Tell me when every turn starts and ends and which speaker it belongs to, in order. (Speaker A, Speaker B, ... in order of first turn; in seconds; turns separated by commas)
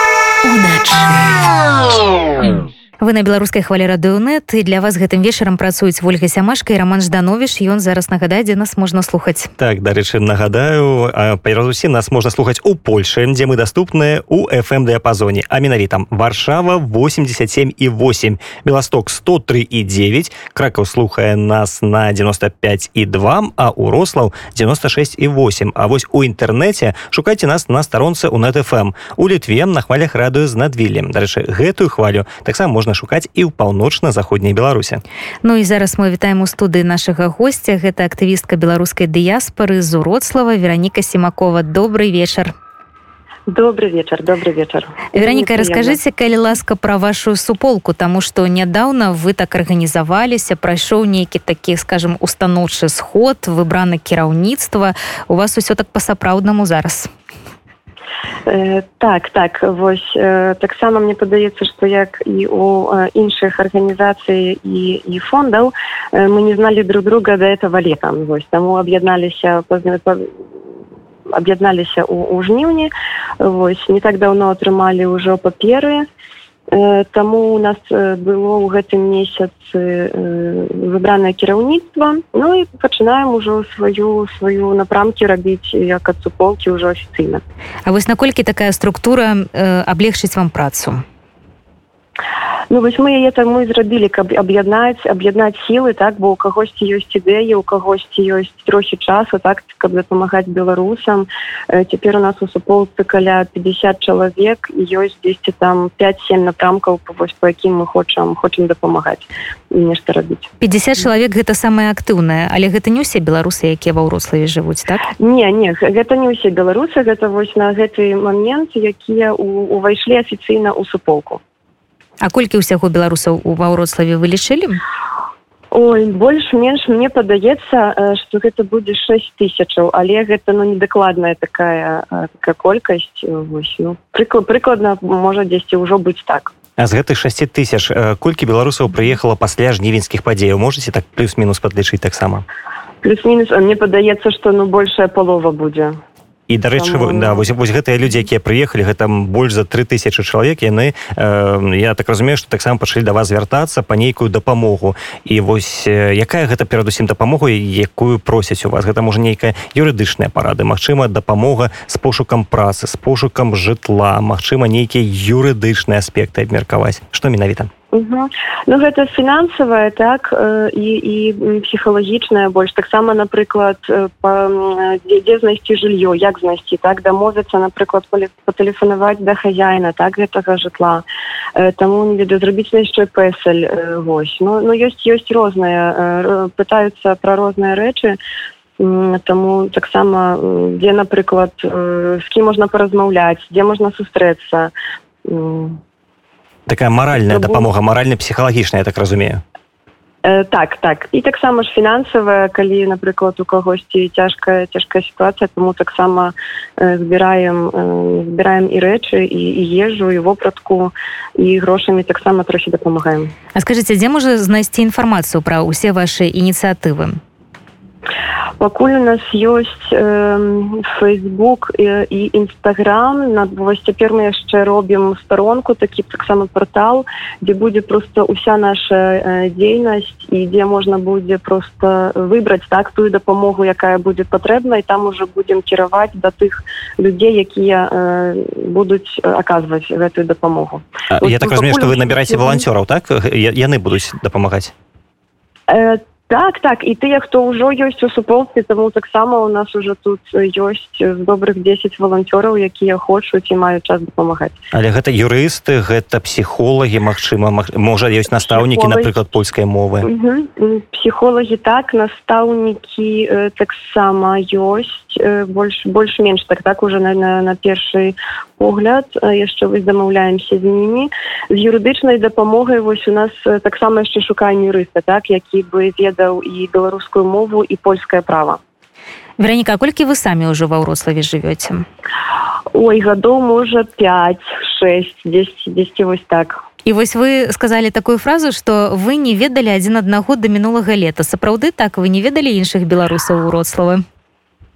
Speaker A: 0.5-1.0, Speaker A: 3.0-9.5, Speaker B: 9.6-35.0, Speaker A: 35.4-42.5, Speaker C: 43.5-46.0, Speaker A: 45.2-57.1, Speaker C: 58.5-70.3, Speaker C: 71.3-76.1, Speaker C: 76.7-87.4, Speaker A: 87.8-91.0, Speaker C: 92.7-110.5, Speaker A: 110.6-115.1, Speaker C: 115.2-121.4, Speaker A: 122.2-124.8, Speaker C: 125.7-136.5, Speaker B: 136.8-142.4, Speaker C: 143.0-146.0, Speaker B: 146.5-167.7, Speaker C: 146.8-147.4, Speaker C: 167.9-181.0, Speaker C: 181.6-188.2, Speaker C: 188.8-194.7, Speaker C: 195.2-195.8, Speaker B: 196.7-199.4, Speaker C: 197.2-197.7, Speaker C: 200.2-213.3, Speaker A: 213.6-217.2, Speaker C: 218.6-242.7, Speaker B: 241.1-244.7, Speaker C: 245.7-254.6, Speaker B: 254.7-260.1, Speaker C: 258.5-259.1, Speaker C: 260.0-278.6, Speaker A: 279.4-281.8, Speaker C: 282.7-286.6, Speaker A: 286.9-294.0